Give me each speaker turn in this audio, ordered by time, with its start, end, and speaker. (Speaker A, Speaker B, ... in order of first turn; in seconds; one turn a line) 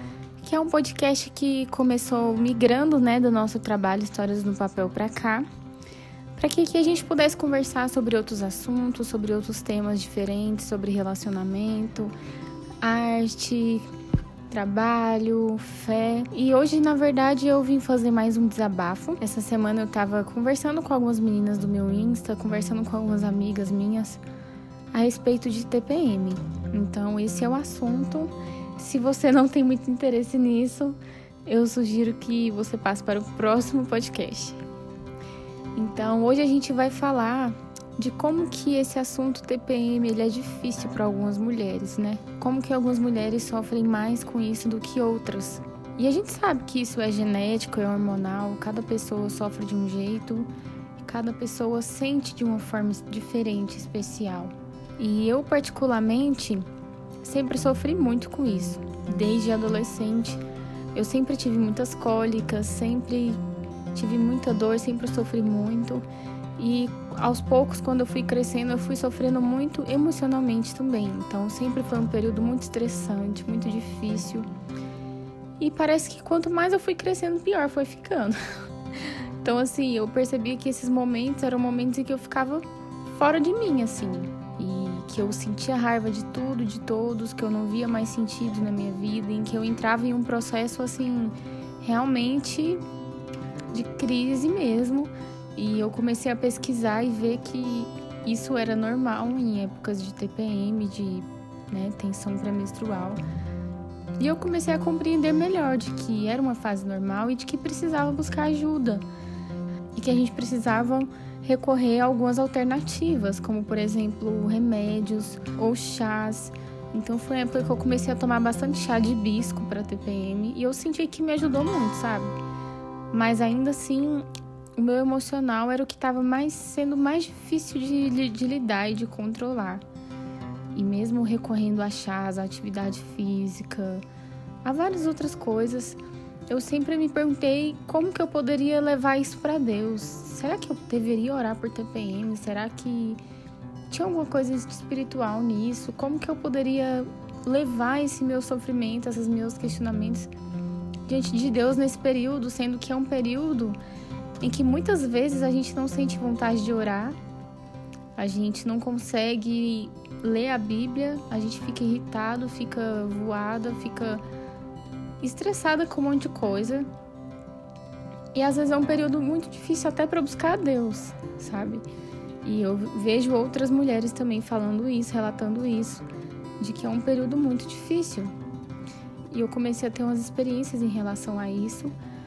Speaker A: 0.4-5.5
Speaker A: 6.4-12.1
Speaker A: 12.8-13.9
Speaker A: 14.5-24.2
Speaker A: 24.9-34.6
Speaker A: 35.8-56.7
Speaker A: 57.2-60.4
Speaker A: 60.9-63.4
Speaker A: 63.9-66.1
Speaker A: 66.6-74.5
Speaker A: 75.6-78.4
Speaker A: 79.0-92.8
Speaker A: 93.7-103.2
Speaker A: 104.2-109.0
Speaker A: 109.9-122.4
Speaker A: 123.1-129.8
Speaker A: 130.7-134.1
Speaker A: 134.6-143.2
Speaker A: 143.9-150.3
Speaker A: 151.1-153.8
Speaker A: 154.4-157.2
Speaker A: 158.2-164.2
Speaker A: 165.2-166.9
Speaker A: 168.3-171.8
Speaker A: 172.4-176.1
Speaker A: 176.6-178.3
Speaker A: 179.3-181.9